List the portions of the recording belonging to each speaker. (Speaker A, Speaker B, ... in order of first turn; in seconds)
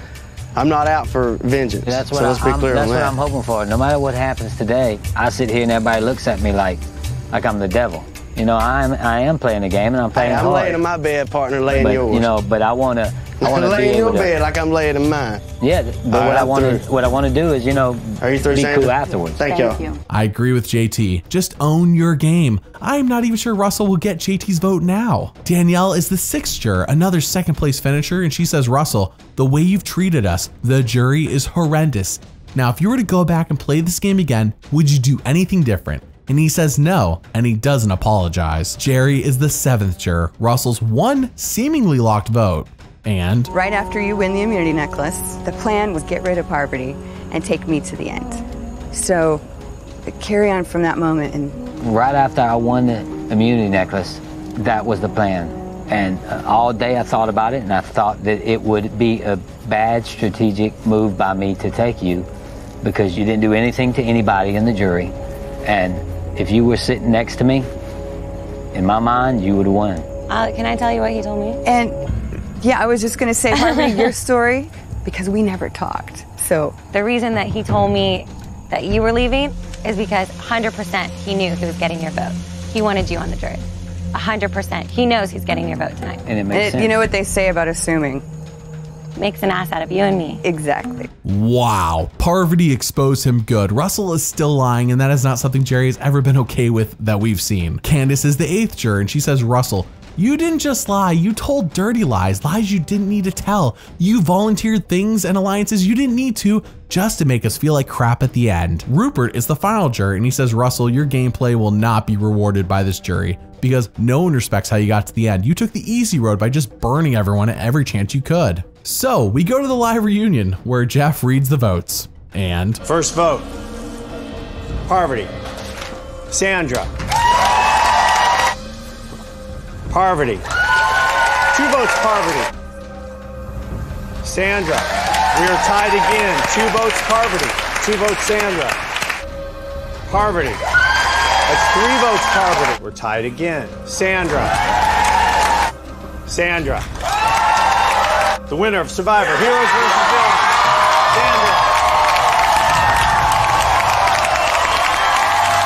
Speaker A: 0.6-3.2, 10.1-12.3, 13.4-15.4, 16.1-16.9, 18.2-19.9
Speaker B: 1.9-10.8, 11.7-14.4, 15.6-19.8, 51.8-62.3, 62.8-67.7, 68.7-70.1, 86.3-87.1
Speaker C: 20.1-43.5, 91.2-122.8
Speaker D: 43.5-49.4, 50.0-51.6, 71.6-72.0, 72.6-76.8, 86.5-88.2, 90.4-91.1
Speaker E: 70.3-71.6, 73.5-74.1, 76.9-86.2, 89.2-90.4
Speaker F: 122.8-123.5, 124.9-125.3, 126.3-126.9, 129.9-130.4, 131.5-132.5, 134.2-138.8, 140.1-140.6, 141.5-144.6, 146.3-146.9, 148.5-151.7